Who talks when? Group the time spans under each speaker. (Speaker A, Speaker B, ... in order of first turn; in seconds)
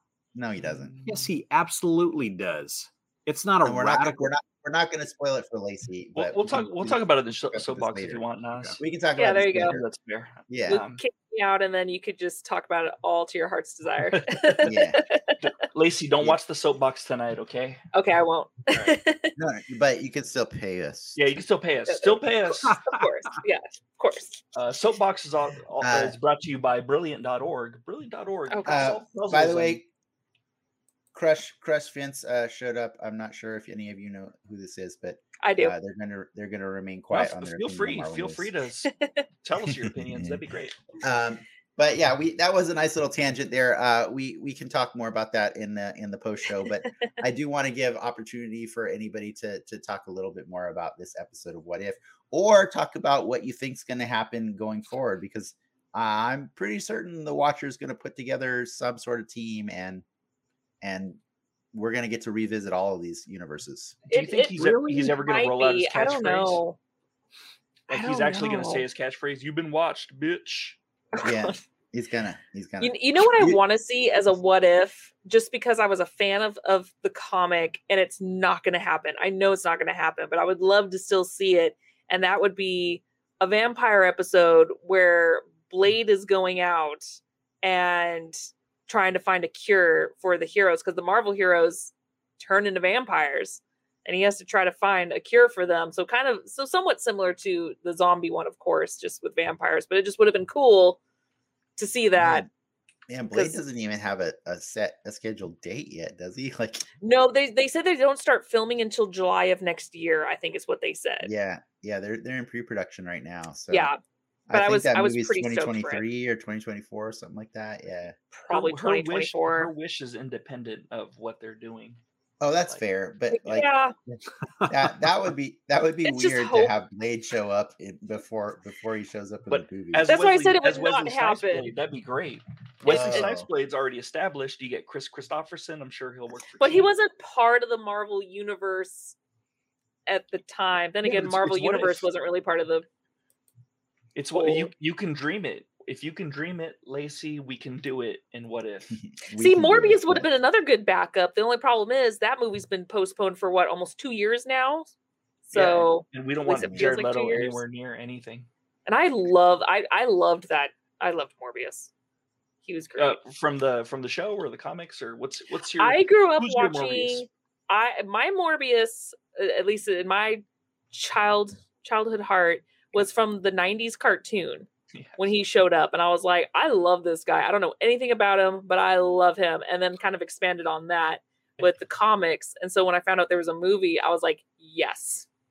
Speaker A: 0.3-0.9, 3.6-8.2, 8.8-9.8, 10.5-10.8, 14.6-15.0, 19.4-21.3, 25.8-26.2, 28.7-29.9, 31.1-38.5, 39.7-40.4, 41.0-60.0, 60.8-61.2, 61.7-64.0, 71.2-73.6, 102.2-102.5, 103.1-106.9, 111.2-113.9, 114.5-118.2, 122.4-130.1, 132.8-133.5, 149.1-150.3, 156.7-156.9
Speaker B: 0.7-1.3, 6.2-8.8, 9.6-11.0, 14.1-14.7, 15.4-17.8, 21.2-22.8, 24.5-29.8, 37.1-38.9, 39.4-40.8, 64.1-66.6, 67.9-70.8, 118.5-122.0, 129.5-136.9, 141.0-142.1, 144.2-149.0, 155.5-158.5, 163.0-167.2, 174.9-175.3
Speaker C: 1.1-4.3, 22.6-23.1
Speaker D: 9.2-9.8, 10.7-15.4, 17.9-19.4, 21.9-22.2, 22.7-24.4, 28.5-28.9, 35.4-35.8, 38.9-39.2, 64.1-66.8, 67.9-68.8, 71.1-71.6, 72.8-87.0, 87.6-101.0, 101.8-102.5, 103.3-103.6, 107.0-111.3, 113.7-114.0, 114.5-116.0, 118.3-119.7, 123.3-124.0, 126.0-126.7, 130.1-131.7, 136.6-139.2, 140.1-142.9, 144.3-144.7, 149.4-154.9, 155.5-157.6, 158.9-161.9, 162.6-163.2, 165.8-185.3